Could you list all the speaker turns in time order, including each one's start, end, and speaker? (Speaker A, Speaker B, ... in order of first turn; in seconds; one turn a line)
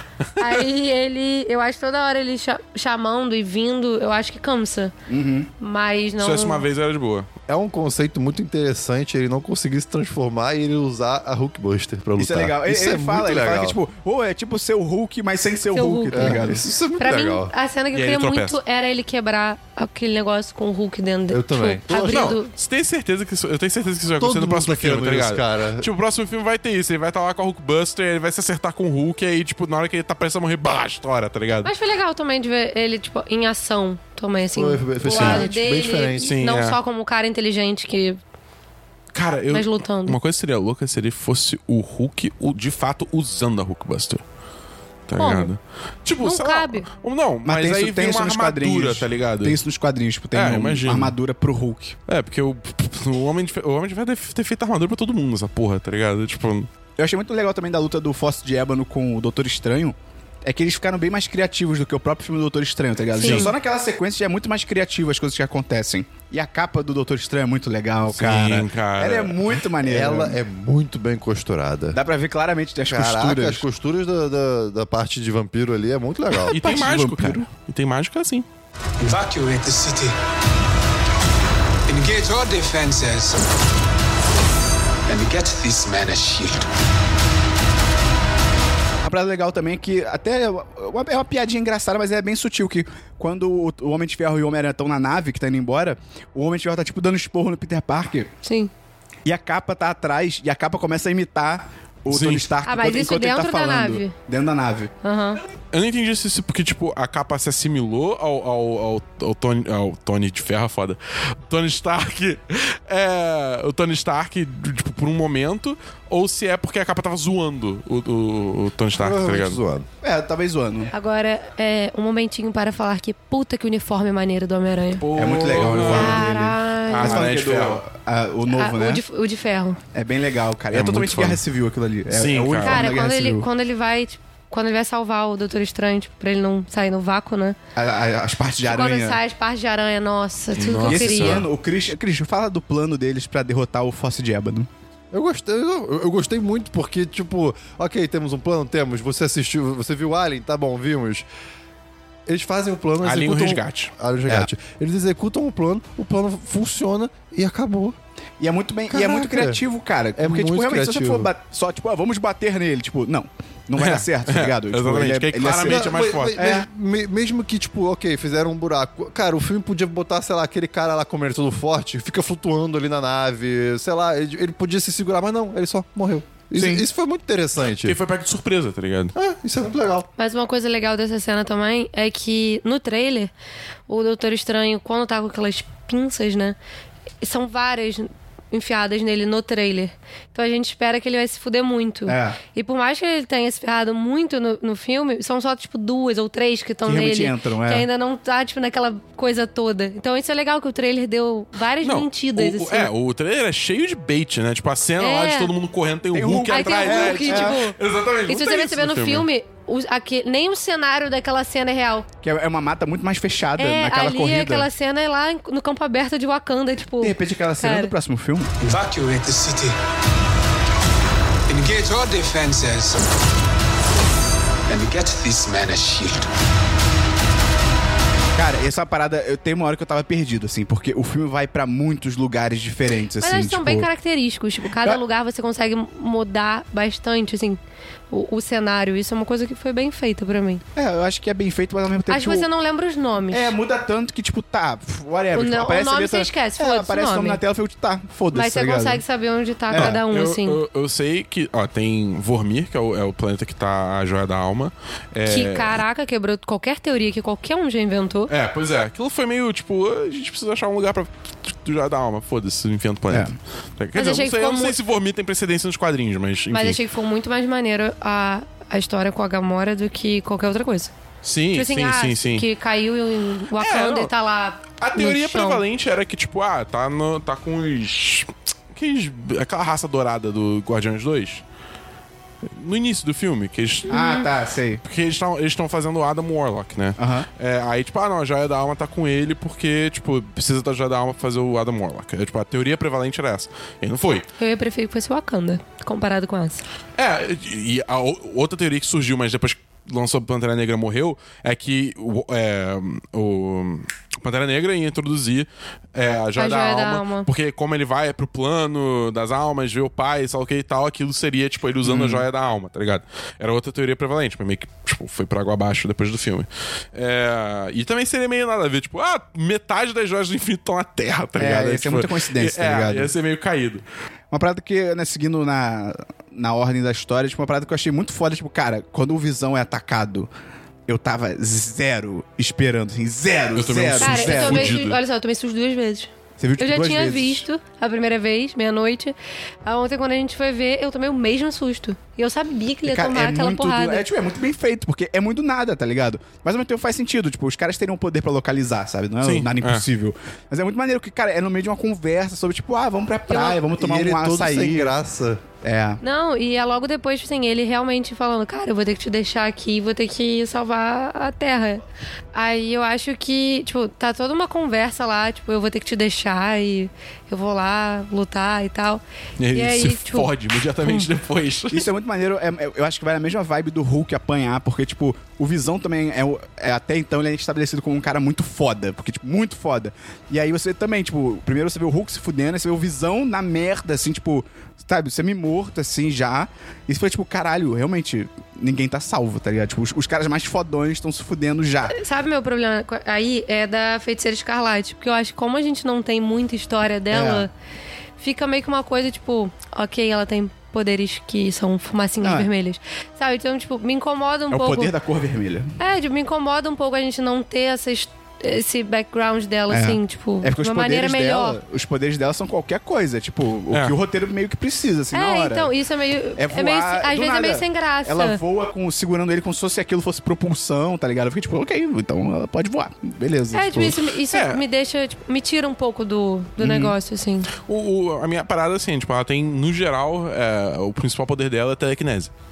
Speaker A: 0.2-0.7
Speaker B: 0.4-4.9
Speaker C: 5.1-5.5
Speaker B: 5.6-6.6
Speaker A: 6.2-7.3
Speaker D: 7.5-13.8
Speaker C: 12.2-16.7
Speaker B: 15.7-16.4
Speaker D: 16.1-17.5
Speaker B: 17.0-22.5
Speaker A: 17.9-18.6
Speaker D: 21.3-22.4
Speaker A: 22.0-31.7
Speaker D: 24.2-25.9
Speaker B: 31.6-38.2
Speaker D: 34.5-36.3
Speaker A: 35.1-35.5
Speaker A: 36.2-36.8
Speaker A: 39.1-44.2
Speaker B: 39.5-40.2
Speaker A: 45.1-49.6
Speaker B: 45.2-45.5
Speaker B: 46.2-46.9
Speaker C: 47.4-52.0
Speaker A: 50.3-51.1
Speaker A: 52.1-56.7
Speaker C: 57.0-70.4
Speaker B: 63.1-63.5
Speaker A: 63.2-63.5
Speaker A: 68.1-69.5
Speaker D: 69.8-72.0
Speaker C: 71.9-73.6
Speaker D: 72.8-76.5
Speaker C: 76.4-77.5
Speaker A: 76.5-78.5
Speaker E: 79.0-80.2
Speaker E: 81.9-83.5
Speaker E: 85.1-86.7
Speaker C: 89.0-98.3
Speaker B: 98.4-98.7
Speaker C: 99.2-104.9
Speaker A: 102.1-102.5
Speaker B: 102.6-104.1
Speaker B: 105.0-105.4
Speaker A: 105.7-119.6
Speaker D: 119.0-119.9
Speaker C: 120.0-120.9
Speaker B: 120.9-125.0
Speaker A: 125.0-126.3
Speaker C: 125.2-129.0
Speaker B: 125.7-127.3
Speaker A: 126.9-127.8
Speaker B: 128.5-129.8
Speaker C: 129.9-133.5
Speaker A: 130.7-131.4
Speaker A: 132.1-132.9
Speaker B: 132.6-137.6
Speaker C: 137.8-139.2
Speaker B: 138.6-141.5
Speaker A: 140.6-141.5
Speaker C: 140.9-144.7
Speaker D: 145.1-151.2
Speaker D: 152.3-158.0
Speaker A: 153.0-153.9
Speaker C: 158.4-166.7
Speaker D: 158.9-159.6
Speaker D: 160.2-161.3
Speaker A: 163.8-166.4
Speaker D: 165.6-178.0
Speaker C: 176.5-176.8
Speaker A: 177.8-179.1
Speaker D: 179.1-180.1
Speaker B: 180.2-183.3
Speaker B: 183.9-186.6
Speaker B: 187.2-202.9
Speaker C: 192.1-192.4
Speaker C: 196.8-197.9
Speaker A: 201.8-209.2
Speaker B: 205.0-205.5
Speaker C: 206.1-207.6
Speaker B: 206.4-212.1
Speaker C: 212.2-214.7
Speaker B: 213.6-217.9
Speaker C: 217.0-218.5
Speaker E: 218.6-219.8
Speaker E: 221.5-223.1
Speaker E: 224.7-226.3
Speaker C: 228.3-233.9
Speaker B: 233.2-237.6
Speaker B: 238.1-240.6
Speaker C: 240.8-242.5
Speaker B: 242.1-243.5
Speaker C: 243.3-249.0
Speaker B: 245.3-247.4
Speaker B: 248.3-250.6
Speaker C: 249.7-250.0
Speaker A: 249.7-255.8
Speaker B: 255.2-258.3
Speaker A: 258.3-266.8
Speaker B: 263.9-264.8
Speaker B: 266.5-270.9
Speaker A: 271.2-272.4
Speaker B: 271.5-275.6
Speaker A: 273.6-274.1
Speaker A: 274.8-281.4
Speaker A: 282.5-284.0
Speaker C: 283.9-284.8
Speaker B: 283.9-284.3
Speaker A: 284.8-294.2
Speaker C: 287.0-287.2
Speaker B: 294.4-296.6
Speaker A: 296.9-323.8
Speaker B: 306.4-307.3
Speaker C: 311.8-312.2
Speaker C: 321.4-323.1
Speaker C: 324.3-330.3
Speaker C: 330.9-334.8
Speaker A: 333.5-335.0
Speaker B: 334.0-344.1
Speaker C: 336.4-337.4
Speaker C: 342.8-354.9
Speaker A: 349.2-349.9
Speaker B: 353.3-353.6
Speaker D: 353.7-355.4
Speaker C: 355.6-356.0
Speaker B: 356.0-361.8
Speaker B: 362.3-370.3
Speaker A: 369.4-371.9
Speaker C: 371.7-391.9
Speaker B: 391.9-397.5
Speaker C: 397.1-397.4
Speaker B: 398.2-404.9
Speaker C: 402.2-402.5
Speaker C: 404.5-405.7
Speaker B: 405.8-411.6
Speaker C: 409.7-415.7
Speaker A: 413.7-413.9
Speaker B: 415.1-418.4
Speaker C: 416.4-424.0
Speaker B: 423.5-427.5
Speaker A: 424.3-424.6
Speaker C: 426.6-426.9
Speaker A: 427.6-432.3